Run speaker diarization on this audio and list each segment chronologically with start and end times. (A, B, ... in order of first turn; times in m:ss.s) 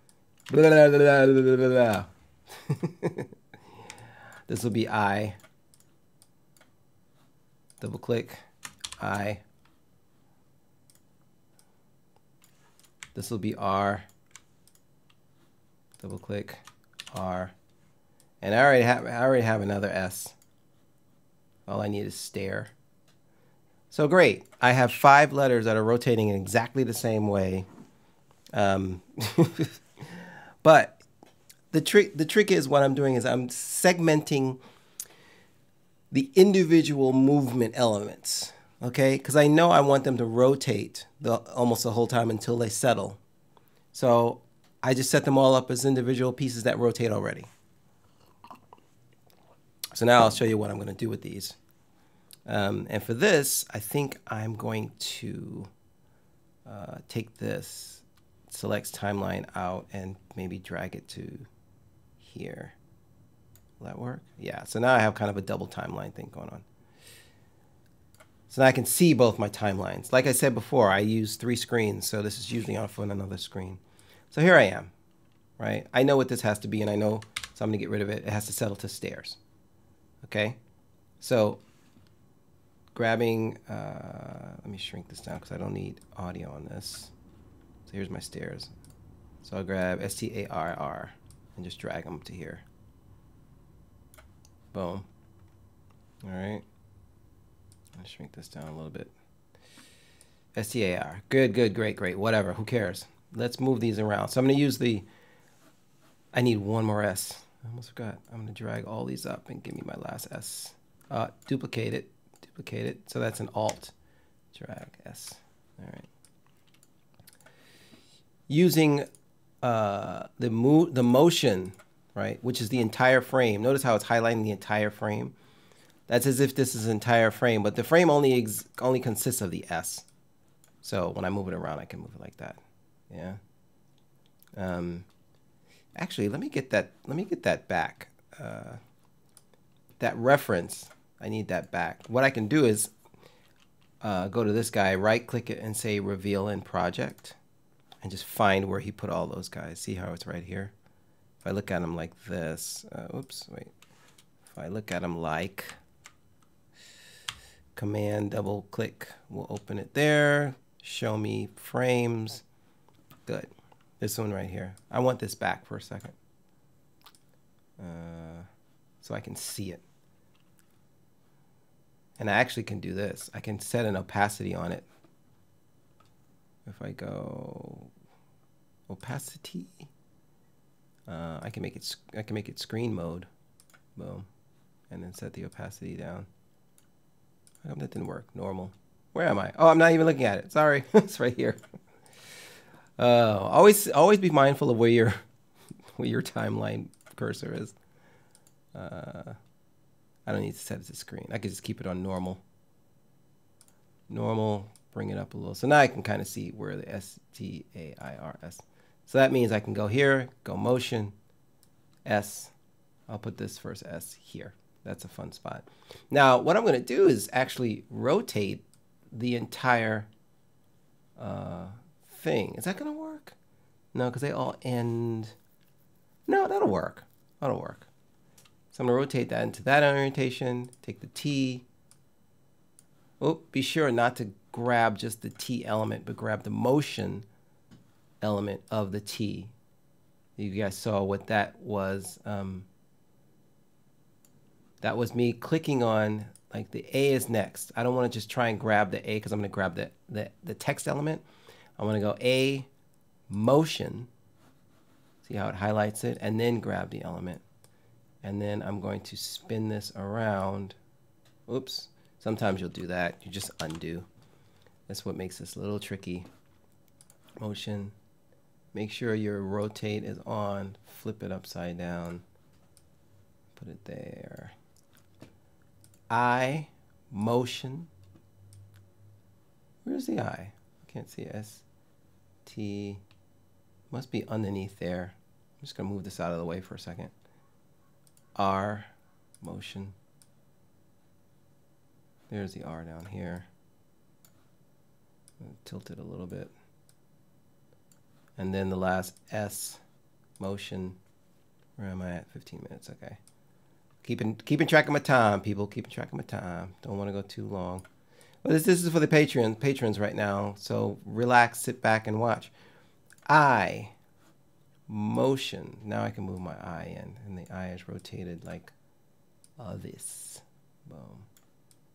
0:00.5-0:03.3 A
0:04.5-0:05.4 A
0:07.8-0:08.4 A
0:09.0-0:09.4 A
0:13.2-0:14.1 A
0:16.0-0:16.6 A
0:17.1-0:17.5 A
0:18.4-0:20.4 A
0:21.7-0:22.7 A
0:23.9-0:27.7 A
0:28.5-0:31.0 A
0:31.7-0:34.6 A
0:36.1-0:43.2 A
0:43.9-0:47.5 A
0:50.0-0:51.6 A
0:52.5-0:55.7 A
0:56.7-1:01.5 A
1:02.2-1:02.8 A
1:03.8-1:06.6 A
1:08.5-1:13.8 A
1:14.3-1:14.9 A
1:15.6-1:19.4 A
1:20.2-1:20.6 A
1:21.2-1:21.6 A
1:23.0-1:27.1 A
1:27.9-1:28.7 A
1:29.4-1:32.6 A
1:34.7-1:35.1 A
1:36.2-1:36.6 A
1:38.0-1:39.1 A
1:40.6-1:45.0 A
1:46.3-1:53.9 A
1:54.5-1:56.1 A
1:58.5-1:59.1 A
1:59.6-2:05.4 A
2:06.1-2:10.1 A
2:10.8-2:13.4 A
2:14.6-2:15.1 A
2:16.0-2:18.8 A
2:20.0-2:22.9 A
2:24.0-2:27.4 A
2:28.0-2:30.7 A
2:31.4-2:33.7 A
2:34.5-2:35.8 A
2:37.8-2:42.4 A
2:44.0-2:46.2 A
2:47.8-2:48.5 A
2:49.0-2:49.8 A
2:52.2-2:54.9 A
2:56.7-2:57.9 A
2:58.9-2:59.9 A
3:01.1-3:03.3 A
3:04.0-3:04.3 A
3:04.9-3:06.3 A
3:07.6-3:11.6 A
3:13.0-3:15.2 A
3:16.0-3:17.8 A
3:18.7-3:19.4 A
3:20.3-3:22.4 A
3:24.1-3:31.2 A
3:32.0-3:32.5 A
3:33.1-3:40.1 A
3:41.2-3:43.4 A
3:43.9-3:45.4 A
3:46.3-3:47.9 A
3:48.7-3:51.6 A
3:53.2-3:57.3 A
3:58.2-3:59.5 A
4:00.4-4:02.7 A
4:04.8-4:11.2 A
4:11.8-4:12.7 A
4:13.3-4:14.1 A
4:15.2-4:17.4 A
4:18.2-4:20.8 A
4:21.5-4:24.1 A
4:24.9-4:26.3 A
4:27.4-4:28.0 A
4:28.7-4:32.2 A
4:33.6-4:34.5 A
4:36.1-4:37.9 A
4:39.8-4:41.6 A
4:42.5-4:43.0 A
4:43.9-4:47.1 A
4:48.4-4:48.9 A
4:49.4-4:50.0 A
4:52.3-4:53.5 A
4:55.4-4:56.5 A
4:58.4-4:59.8 A
5:00.4-5:01.0 A
5:01.8-5:03.2 A
5:04.0-5:07.8 A
5:08.4-5:12.5 A
5:13.3-5:13.9 A
5:14.9-5:18.7 A
5:19.6-5:21.3 A